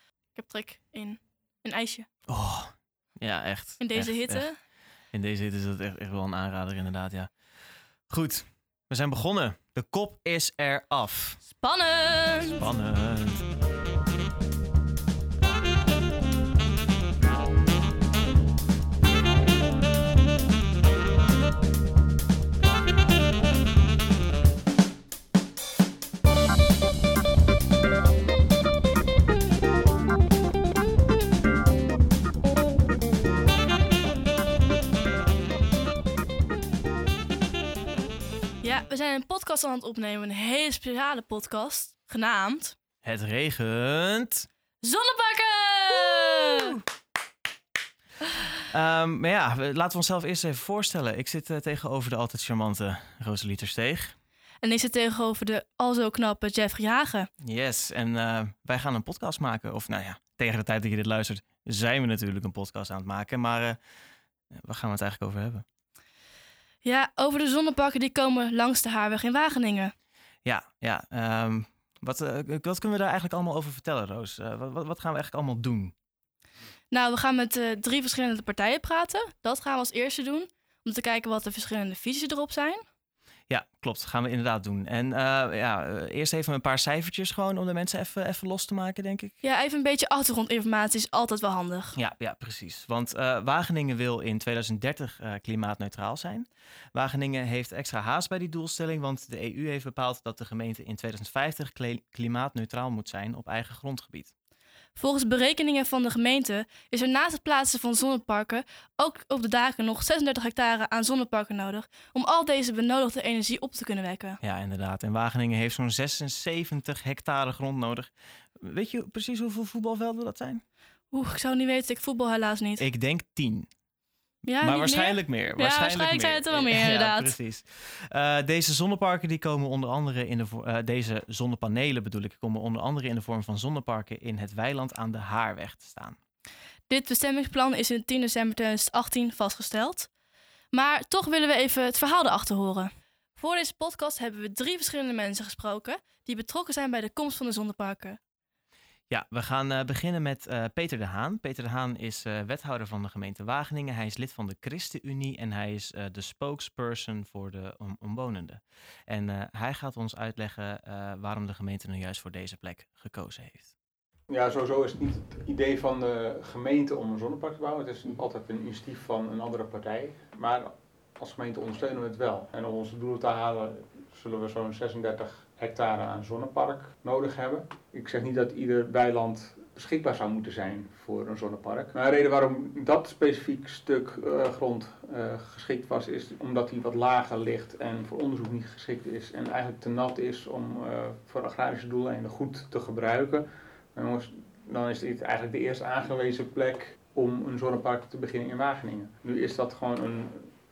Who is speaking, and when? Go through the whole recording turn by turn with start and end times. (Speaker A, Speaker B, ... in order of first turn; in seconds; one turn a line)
Speaker A: 0.3-2.1
Speaker B: 2.3-4.5
Speaker A: 3.8-4.6
Speaker B: 5.1-7.3
Speaker B: 8.1-11.4
Speaker A: 11.6-12.6
Speaker B: 12.4-13.4
Speaker A: 38.6-42.7
Speaker B: 43.0-44.5
Speaker A: 44.8-46.8
Speaker B: 46.0-46.6
Speaker B: 48.7-54.1
Speaker A: 54.6-57.3
Speaker B: 57.4-63.8
Speaker B: 64.5-65.6
Speaker A: 66.8-69.9
Speaker B: 70.4-75.9
Speaker A: 76.9-82.8
Speaker B: 83.5-89.3
Speaker A: 89.4-91.9
Speaker B: 92.0-104.3
Speaker A: 105.0-114.4
Speaker B: 114.4-120.6
Speaker A: 121.1-122.8
Speaker B: 122.8-123.7
Speaker A: 124.5-127.3
Speaker B: 124.6-136.2
Speaker A: 136.9-140.1
Speaker A: 140.7-148.2
Speaker B: 149.1-163.7
Speaker C: 164.3-200.4